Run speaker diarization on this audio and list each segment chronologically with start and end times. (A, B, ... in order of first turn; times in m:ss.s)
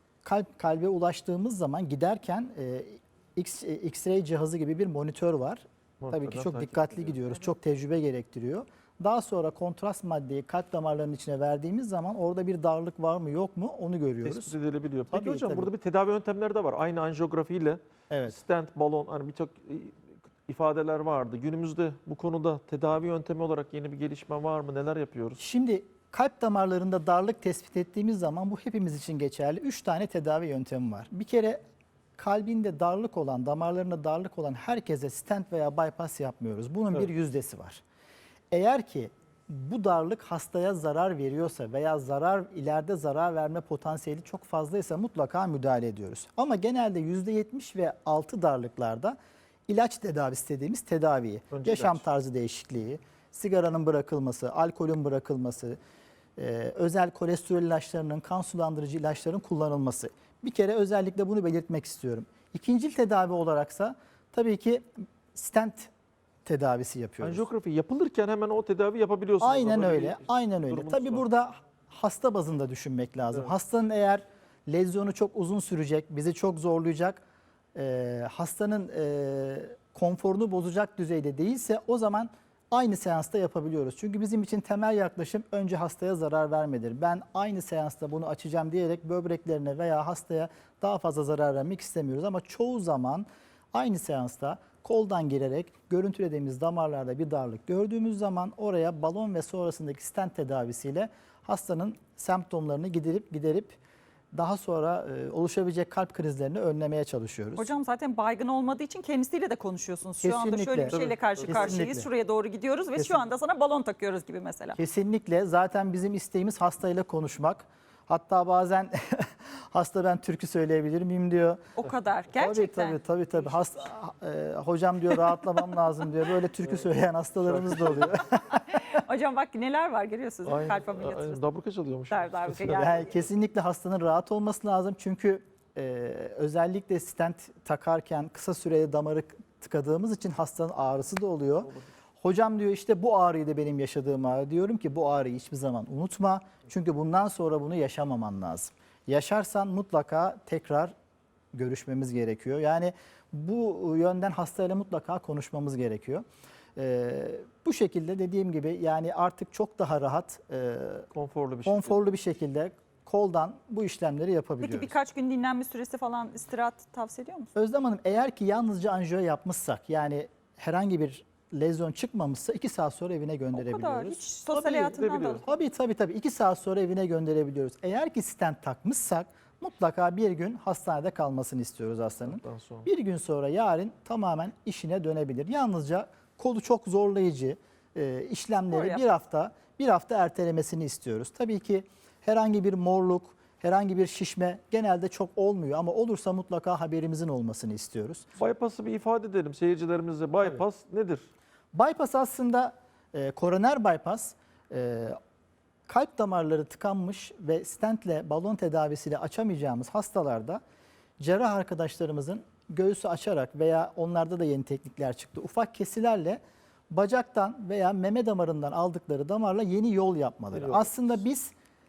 0:00.2-0:14.6 A
0:06.0-0:07.2 B
0:14.2-0:25.4 B
0:15.1-0:15.7 A
0:18.1-0:18.4 A
0:25.4-0:31.6 A
0:32.2-0:37.8 A
0:38.5-0:49.2 A
0:49.7-0:55.8 A
0:51.5-0:52.0 B
0:56.4-1:05.9 A
1:06.4-1:07.5 A
1:07.2-1:11.3 B
1:09.4-1:17.2 A
1:17.8-1:43.8 A
1:44.3-1:47.7 A
1:47.6-1:54.8 C
1:50.2-1:52.1 A
1:50.9-1:51.8 B
1:54.8-2:01.6 A
2:01.8-2:03.0 C
2:02.4-2:08.8 A
2:07.4-2:08.1 B
2:08.7-2:11.4 C
2:10.5-2:12.7 B
2:12.1-2:13.1 C
2:12.6-2:30.9 A
2:31.5-2:36.2 A
2:36.8-2:41.1 A
2:41.1-2:42.0 B
2:41.7-2:45.0 A
2:44.6-2:47.5 C
2:47.6-3:18.3 A
2:53.6-2:55.4 C
2:54.5-2:55.4 B
3:02.2-3:02.9 B
3:08.7-3:09.0 C
3:18.4-3:21.3 B
3:21.7-3:25.2 A
3:25.9-3:30.6 A
3:31.2-3:41.5 A
3:40.5-3:41.1 B